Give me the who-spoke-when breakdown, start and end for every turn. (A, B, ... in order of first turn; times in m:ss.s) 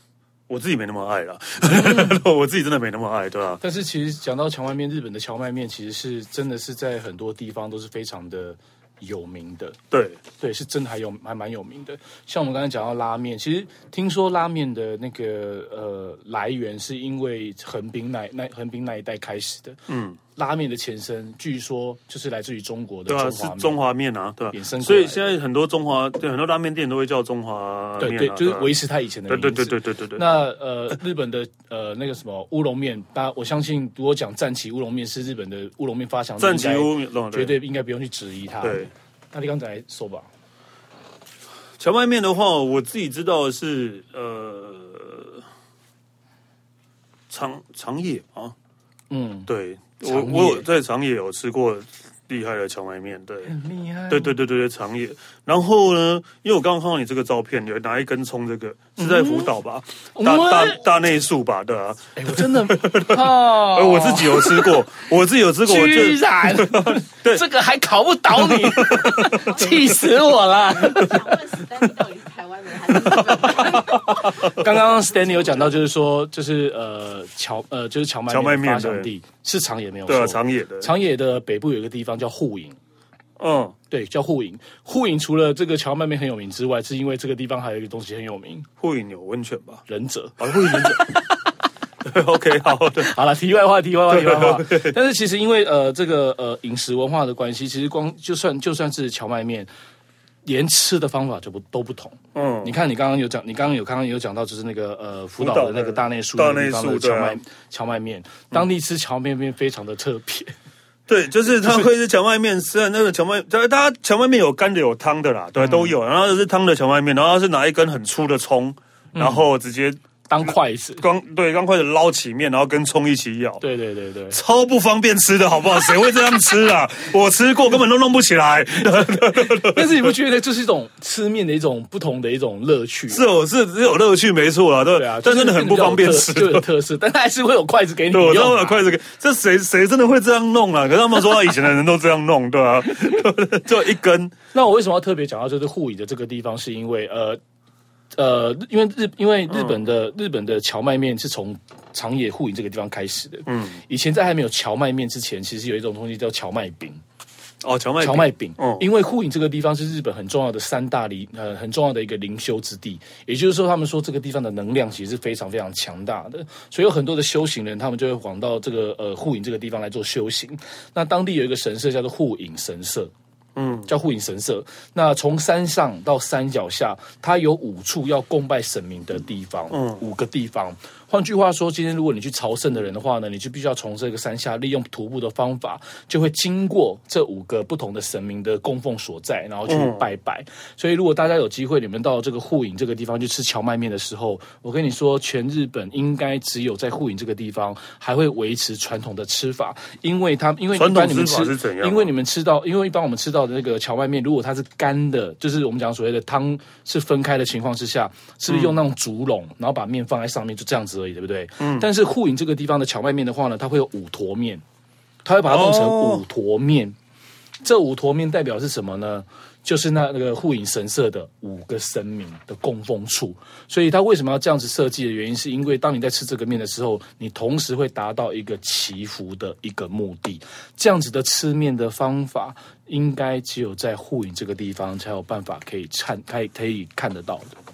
0:00.5-0:03.6 A
0:01.7-0:02.1 B
0:03.6-0:09.8 B
0:09.9-0:10.2 A
0:10.4-0:19.8 B
0:19.9-0:20.2 A
0:20.4-0:23.8 B
0:23.1-0:28.7 A
0:24.5-0:25.3 B
0:28.0-0:40.3 B
0:29.3-0:30.2 A
0:36.4-0:37.6 A
0:38.6-0:38.9 A
0:41.8-0:45.4 A
0:47.3-0:48.6 A
0:49.1-0:49.5 B
0:49.5-0:53.5 A
0:50.0-0:50.7 B
0:53.4-0:54.4 B
0:54.1-1:07.4 A
0:59.0-0:59.5 B
1:00.2-1:00.8 B
1:02.2-1:04.8 B
1:05.6-1:11.4 B
1:08.3-1:10.0 A
1:10.8-1:14.4 C
1:12.9-1:14.7 A
1:13.6-1:22.8 B
1:18.3-1:19.1 A
1:20.1-1:20.9 A
1:23.4-1:23.8 A
1:23.9-1:28.7 B
1:28.8-1:29.8 A
1:29.9-1:31.1 B
1:30.4-1:31.3 A
1:32.0-1:33.1 A
1:33.0-1:39.7 B
1:34.1-1:35.0 A
1:40.4-1:50.5 B
1:42.3-1:42.8 A
1:45.4-1:47.4 A
1:51.1-2:03.6 A
1:55.6-1:55.9 B
1:59.1-1:59.4 B
2:00.3-2:01.0 B
2:03.6-2:04.4 B
2:04.3-2:10.1 A
2:08.8-2:13.2 B
2:13.1-2:16.6 A
2:14.9-2:18.8 B
2:18.1-2:24.4 A
2:24.5-2:27.4 B
2:28.1-2:37.0 B
2:29.5-2:29.8 A
2:33.5-2:33.8 A
2:37.6-2:38.9 A
2:38.0-2:53.1 B
2:53.6-2:53.9 A
2:53.9-3:34.6 B
2:59.7-3:00.0 A
3:09.7-3:10.0 A
3:20.7-3:22.1 A
3:28.5-3:28.8 A
3:31.6-3:31.9 A
3:35.2-3:37.0 B
3:35.5-3:36.2 A
3:37.6-3:57.5 B